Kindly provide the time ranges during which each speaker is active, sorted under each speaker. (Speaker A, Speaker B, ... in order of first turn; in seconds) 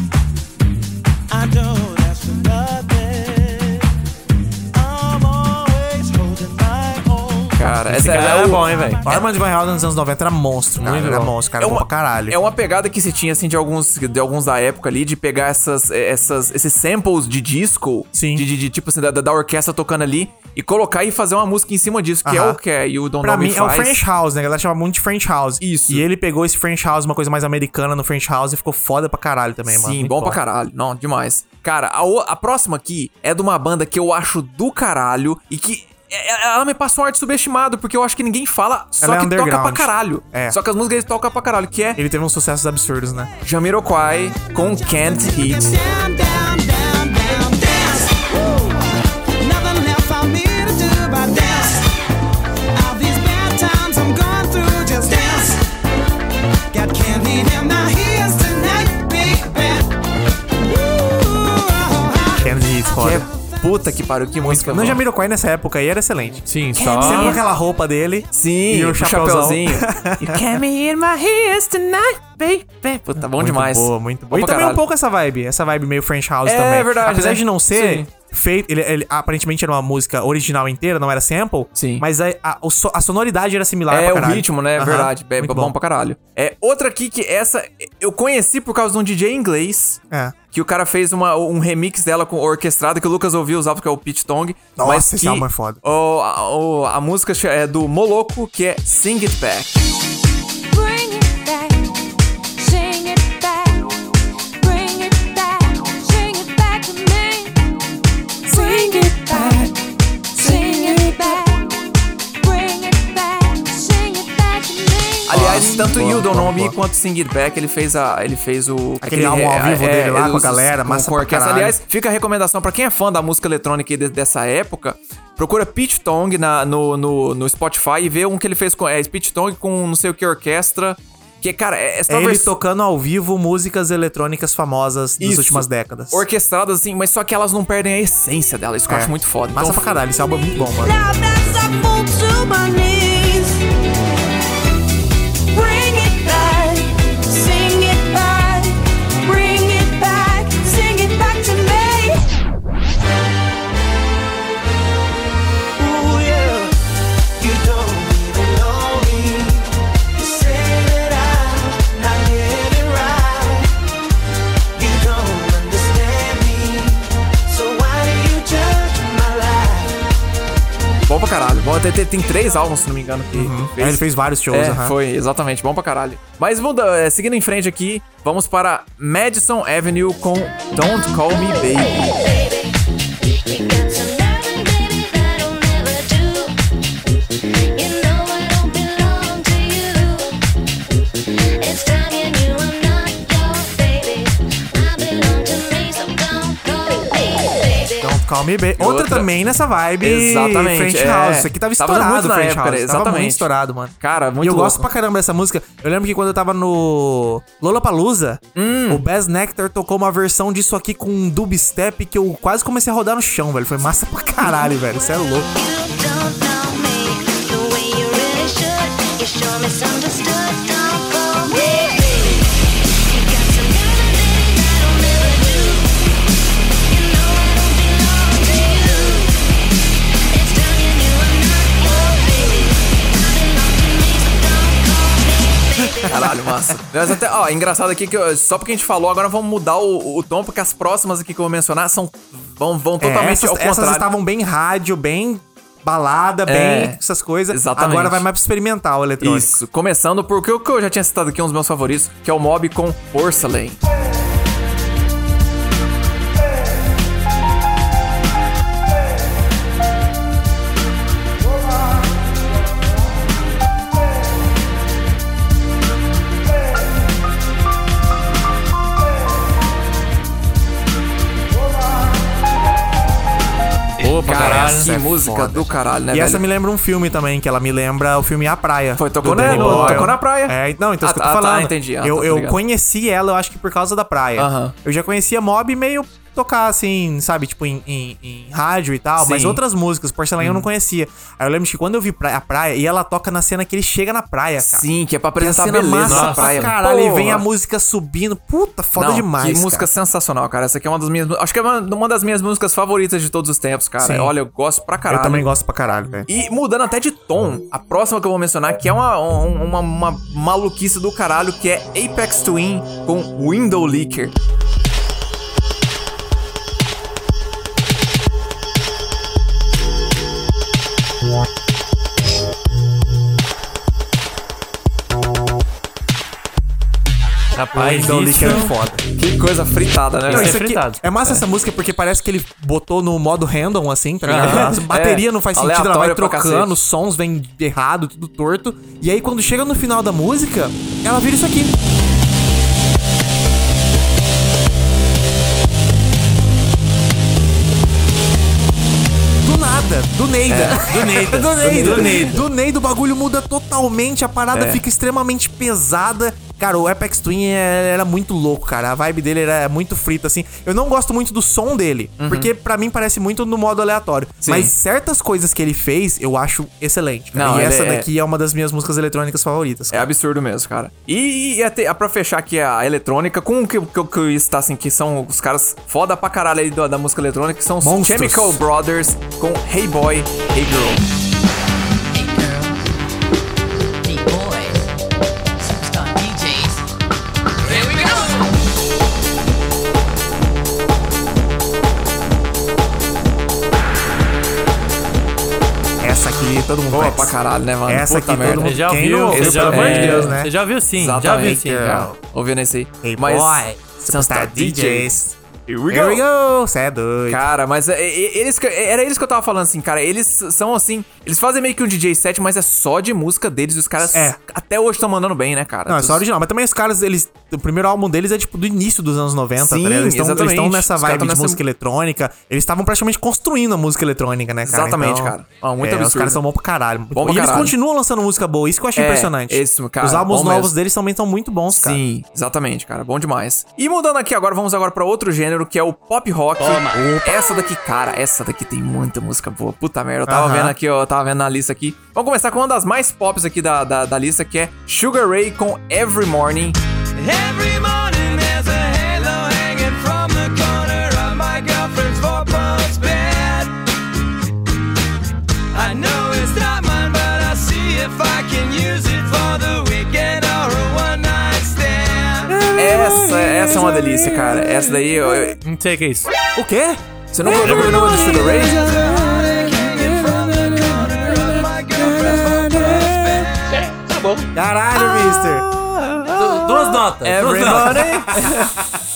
Speaker A: 1.3-3.7, 4.8-7.5, 45.5-48.8, 49.4-51.9, 52.7-55.6, 56.7-59.9, 60.6-62.5, 155.8-156.7, 157.4-163.7, 164.7-170.0, 382.2-382.6, 385.7-386.6, 447.2-453.8, 455.7-462.6, 468.2-474.0
Speaker B: 7.6-9.2, 11.6-24.0, 25.6-26.0, 29.6-42.0, 43.4-45.7, 62.9-65.0, 66.8-67.4, 68.3-74.8, 76.4-78.1, 81.8-82.0, 83.9-90.0, 90.5-99.8, 115.3-132.5, 135.2-139.8, 171.1-182.1, 198.8-199.3, 200.0-203.5, 204.0-204.9, 208.6-209.0, 236.1-244.1, 246.4-248.3, 249.2-253.8, 274.2-276.4, 279.0-282.6, 284.4-284.7, 289.2-289.6, 290.4-290.7, 294.6-297.4, 298.9-305.4, 306.3-314.3, 329.1-330.6, 334.3-336.8, 350.5-351.0, 351.9-352.2, 354.5-354.8, 362.2-362.5, 364.4-364.7, 367.3-368.1, 369.9-381.0, 396.9-398.7, 399.3-400.4, 400.9-405.1, 405.7-406.2, 407.3-416.2, 419.6-421.6, 424.6-426.4, 427.1-427.7, 428.9-430.7, 431.7-446.8, 462.7-465.6, 467.3-468.9, 476.0-476.4, 477.2-478.9
Speaker C: 7.9-9.0, 10.8-11.3, 66.5-67.4, 274.0-274.9, 279.2-280.1, 296.1-296.7, 327.5-328.7, 330.3-331.0, 334.3-334.7, 350.7-352.4, 398.4-402.0, 465.6-466.3, 476.3-478.2
Speaker D: 9.0-12.4, 18.1-18.4, 22.2-22.6, 23.2-30.4, 39.0-40.6, 42.0-43.3, 62.4-63.3, 64.4-70.6, 73.2-85.7, 94.8-95.8, 109.3-109.7, 110.4-111.3, 115.3-116.7, 119.0-121.8, 132.1-136.2, 138.9-140.9, 173.3-174.9, 198.0-215.5, 235.9-236.4, 243.0-249.6, 274.3-294.8, 295.4-299.9, 304.0-304.3, 305.1-306.3, 327.7-329.0, 330.3-341.7, 349.4-370.1, 377.8-378.6, 396.0-397.3, 397.9-400.5, 401.4-402.1, 403.0-405.3, 405.9-407.5, 414.1-414.4, 415.9-432.0, 436.9-437.4, 440.2-440.7, 462.5-465.0, 466.5-470.8, 472.0-473.4, 474.5-476.8, 477.4-478.6
Speaker E: 100.7-101.9, 102.6-104.0, 104.6-107.6, 108.4-109.8, 110.3-111.7, 112.4-115.4, 140.8-143.6, 145.5-152.3, 182.1-182.7, 183.4-186.6, 187.7-190.3, 191.6-198.2, 215.5-226.0, 226.8-229.4, 230.3-236.3, 382.2-382.4, 384.1-384.7, 385.9-386.8